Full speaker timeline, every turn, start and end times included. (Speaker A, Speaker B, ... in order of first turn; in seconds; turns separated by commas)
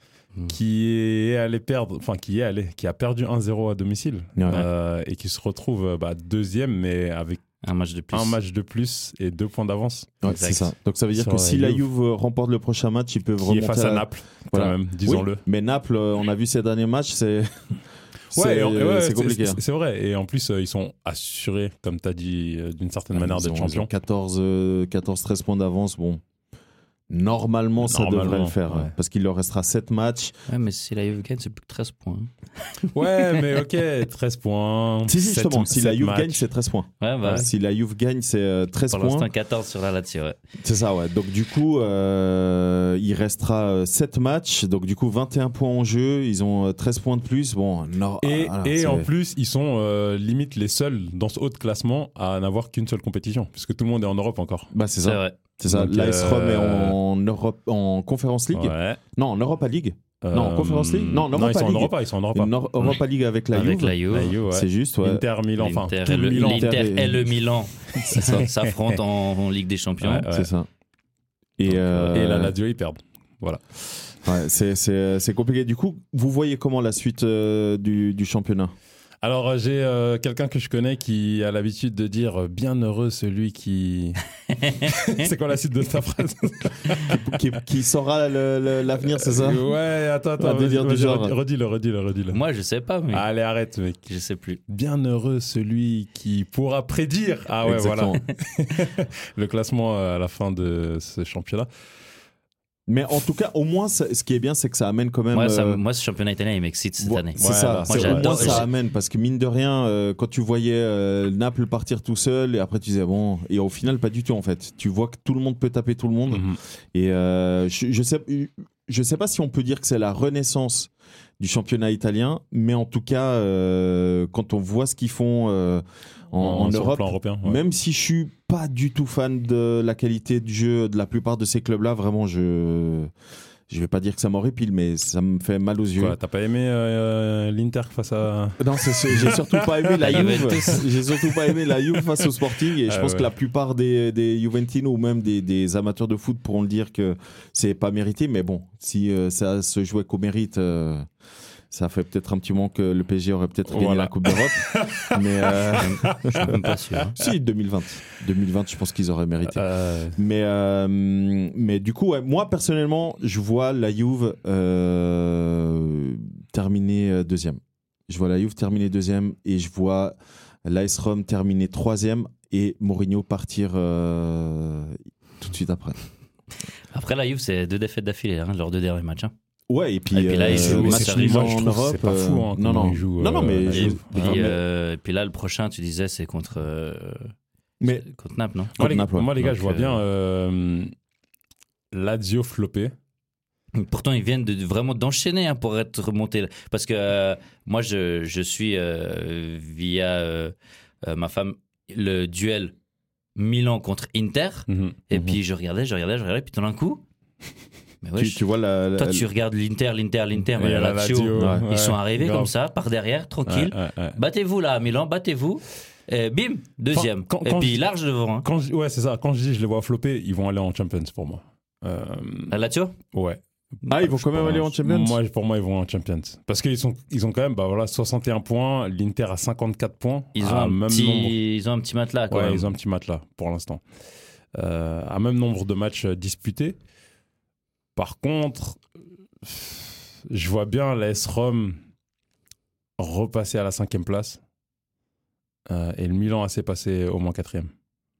Speaker A: 0.5-7.4, Speaker B: 4.4-4.7, Speaker C: 7.6-8.4, Speaker A: 8.1-10.2, Speaker B: 10.2-17.8, Speaker C: 10.2-10.7, Speaker A: 11.1-11.8, Speaker A: 13.4-15.4, Speaker B: 18.3-19.6, Speaker A: 18.3-23.9, Speaker B: 23.1-26.2, Speaker B: 27.1-30.4, Speaker A: 27.8-28.9, Speaker C: 30.5-33.2, Speaker A: 32.9-36.5, Speaker B: 35.1-39.3, Speaker C: 37.0-37.5, Speaker C: 38.9-40.4, Speaker B: 40.6-49.1, Speaker A: 48.2-54.7, Speaker B: 54.7-65.2, Speaker C: 55.0-55.4, Speaker A: 55.7-57.0, Speaker A: 58.5-59.0, Speaker A: 60.2-62.5, Speaker C: 63.5-64.4, Speaker A: 64.1-66.8, Speaker C: 65.6-70.3, Speaker B: 66.4-67.3, Speaker A: 68.0-69.0, Speaker B: 68.0-68.5, Speaker A: 70.0-70.5, Speaker B: 70.3-70.7, Speaker B: 71.6-72.5, Speaker C: 71.7-72.2, Speaker A: 72.1-73.6, Speaker B: 74.2-78.7, Speaker A: 79.2-84.2, Speaker C: 84.6-85.3, Speaker A: 84.8-87.4, Speaker B: 87.0-89.6, Speaker A: 89.0-92.4, Speaker B: 90.4-91.3, Speaker C: 92.3-93.2, Speaker A: 93.1-94.1, Speaker C: 94.1-94.6, Speaker A: 94.7-101.7, Speaker B: 97.6-98.2, Speaker B: 102.9-105.8, Speaker C: 105.3-108.7, Speaker B: 107.0-133.1, Speaker A: 107.4-108.7, Speaker A: 116.3-116.6, Speaker A: 126.4-127.6, Speaker B: 133.7-136.2, Speaker A: 136.0-142.3, Speaker B: 138.6-151.1, Speaker C: 140.1-140.8, Speaker A: 142.8-143.3, Speaker B: 151.7-156.6, Speaker A: 153.7-157.3, Speaker C: 155.8-157.1, Speaker B: 157.1-159.6, Speaker A: 159.5-160.2, Speaker B: 160.2-176.0, Speaker C: 176.9-179.3, Speaker B: 179.7-184.6, Speaker C: 180.1-181.6, Speaker A: 180.4-184.5, Speaker C: 183.7-187.3, Speaker C: 187.8-188.8, Speaker B: 188.8-189.8, Speaker A: 188.8-190.9, Speaker C: 189.6-190.0, Speaker A: 191.9-192.9, Speaker C: 193.7-202.7, Speaker C: 203.4-207.0, Speaker A: 204.7-205.0, Speaker B: 205.1-205.4, Speaker C: 208.0-208.4, Speaker B: 208.2-209.3, Speaker C: 209.0-218.5, Speaker A: 210.6-212.5, Speaker B: 211.4-211.7, Speaker A: 213.5-214.2, Speaker A: 216.9-217.9, Speaker A: 218.4-222.6, Speaker C: 222.5-223.0, Speaker A: 223.1-231.4, Speaker B: 223.9-225.2, Speaker C: 230.3-232.7, Speaker A: 232.3-233.8, Speaker A: 234.6-236.8, Speaker A: 238.0-238.8, Speaker A: 239.4-241.8, Speaker A: 243.0-244.4, Speaker A: 245.7-247.7